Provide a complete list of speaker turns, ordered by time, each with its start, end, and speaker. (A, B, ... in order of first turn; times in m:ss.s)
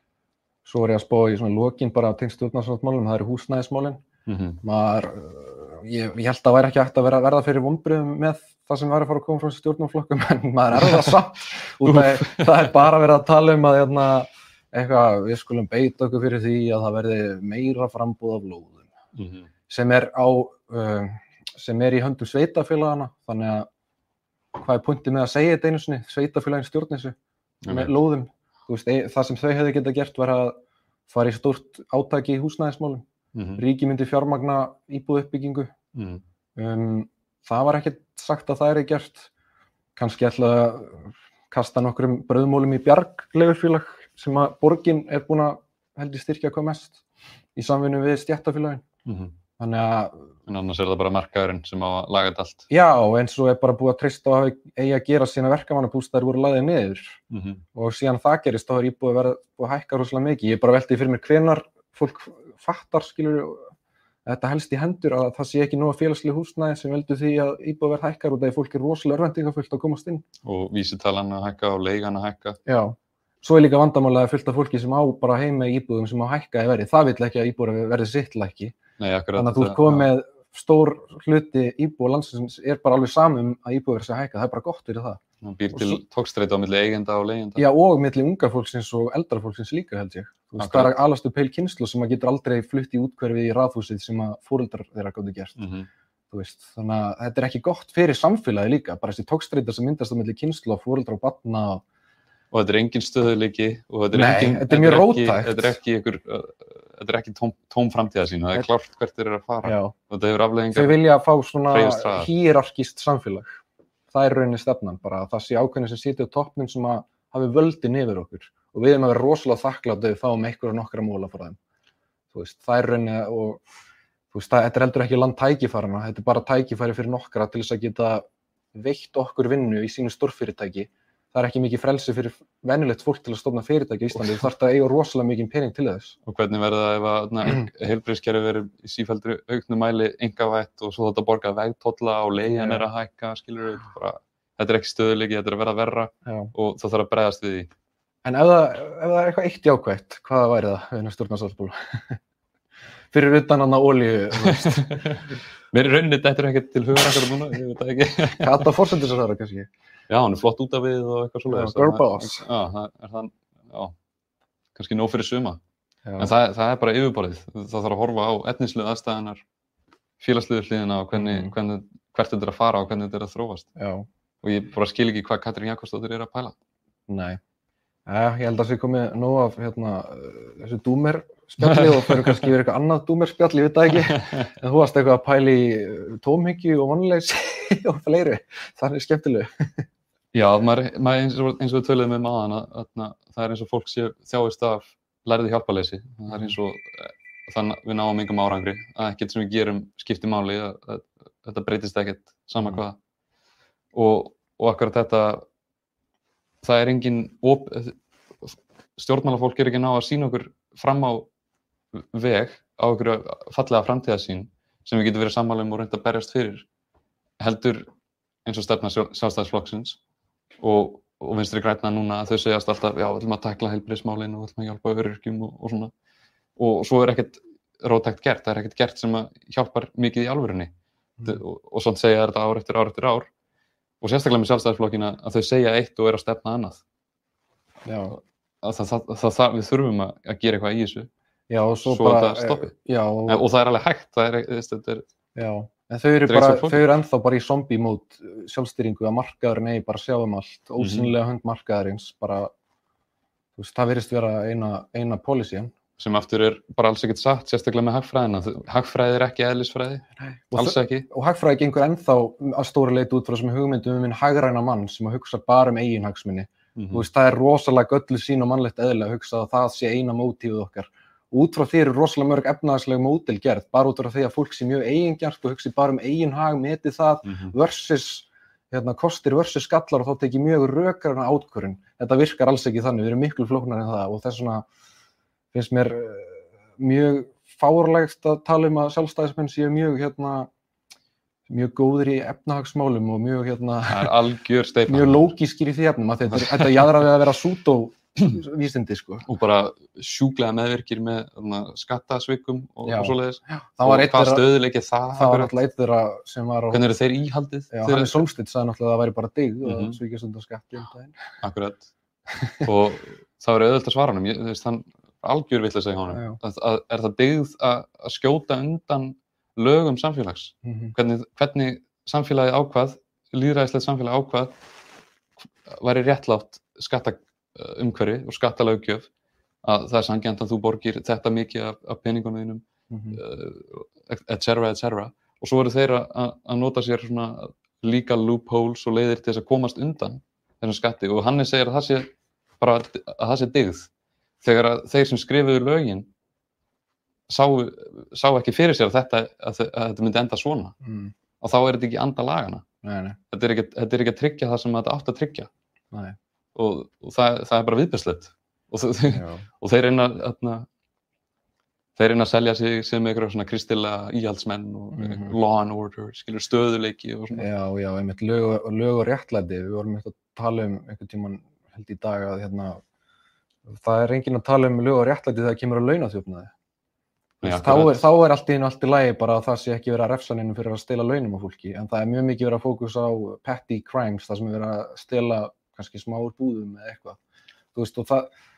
0:00.6-0:04.0 A
0:04.3-0:04.6 B
0:04.6-0:18.9 A
0:11.8-0:12.6 B
0:19.2-0:19.5 B
0:19.7-0:23.7 A
0:24.6-0:27.1 A
0:27.6-0:27.9 B
0:27.7-0:30.5 A
0:31.1-0:33.0 A
0:33.3-0:33.6 B
0:33.6-0:35.7 A
0:35.9-0:36.2 B
0:36.6-0:39.3 A
0:40.0-0:47.0 A
0:47.6-0:48.8 A
0:49.0-0:49.3 B
0:49.6-0:50.3 A
0:50.5-0:52.7 B
0:52.7-0:57.2 A
0:57.3-0:57.6 B
0:57.7-1:03.7 A
1:04.2-1:10.2 A
1:10.4-1:12.6 B
1:12.6-1:18.7 A
1:19.0-1:20.1 B
1:19.4-1:25.2 A
1:25.4-1:27.6 B
1:25.7-1:26.0 A
1:27.6-1:35.6 A
1:30.6-1:30.9 B
1:35.6-1:35.9 B
1:36.3-1:41.8 A
1:42.5-1:51.0 B
1:44.1-1:45.8 A
1:49.6-1:49.9 A
1:50.7-1:53.6 A
1:51.7-1:52.3 B
1:54.1-2:01.6 A
2:02.3-2:03.6 A
2:04.3-2:16.2 A
2:16.2-2:27.7 B
2:22.5-2:22.8 A
2:26.2-2:26.5 A
2:28.2-2:32.2 A
2:33.1-2:35.0 A
2:34.4-2:38.7 B
2:38.4-2:39.7 A
2:40.1-2:43.9 B
2:41.5-2:42.5 A
2:44.7-2:45.6 B
2:46.0-2:46.3 A
2:46.2-2:49.4 B
2:50.2-2:53.7 B
2:51.1-2:51.5 A
2:53.8-2:54.1 A
2:54.4-2:56.5 B
2:57.1-2:57.4 A
2:58.0-3:09.8 A
3:01.6-3:02.5 B
3:03.9-3:04.4 B
3:10.3-3:23.0 B
3:23.9-3:25.4 B
3:26.6-3:31.3 B
3:31.9-3:36.6 B
3:37.4-3:37.9 B
3:38.4-3:40.0 B
3:40.6-3:45.9 B
3:46.6-3:50.7 B
3:51.2-3:53.3 B
3:54.0-3:56.8 B
3:57.8-3:58.2 A
3:58.1-4:01.1 B
4:01.5-4:03.4 A
4:01.8-4:02.7 B
4:03.3-4:05.0 B
4:05.4-4:12.5 A
4:06.2-4:06.9 B
4:10.8-4:11.1 B
4:13.6-4:15.7 A
4:16.0-4:21.1 B
4:20.2-4:44.6 A
4:26.7-4:27.0 B
4:37.2-4:37.5 B
4:45.5-4:50.5 A
4:51.5-4:54.1 A
4:53.9-4:55.3 B
4:54.9-4:59.3 A
4:56.3-4:56.9 B
4:59.2-5:05.6 B
5:02.8-5:04.5 A
5:05.1-5:06.8 A
5:06.7-5:08.2 B
5:07.7-5:11.2 A
5:09.6-5:10.0 B
5:11.4-5:11.9 B
5:12.4-5:12.6 A
5:12.6-5:24.5 B
5:16.1-5:16.4 A
5:20.6-5:20.9 A
5:25.6-5:29.1 B
5:29.6-5:42.1 B
5:32.9-5:33.2 A
5:42.6-5:43.9 B
5:44.4-5:46.1 B
5:47.3-5:50.7 B
5:50.8-5:51.1 A
5:51.4-5:52.6 B
5:52.8-5:53.2 A
5:53.3-5:55.5 B
5:56.5-6:00.7 B
5:59.1-5:59.4 A
6:02.0-6:07.4 B
6:04.9-6:05.3 A
6:07.3-6:12.8 A
6:13.7-6:16.5 A
6:17.4-6:27.2 A
6:17.4-6:18.1 B
6:27.7-6:28.3 A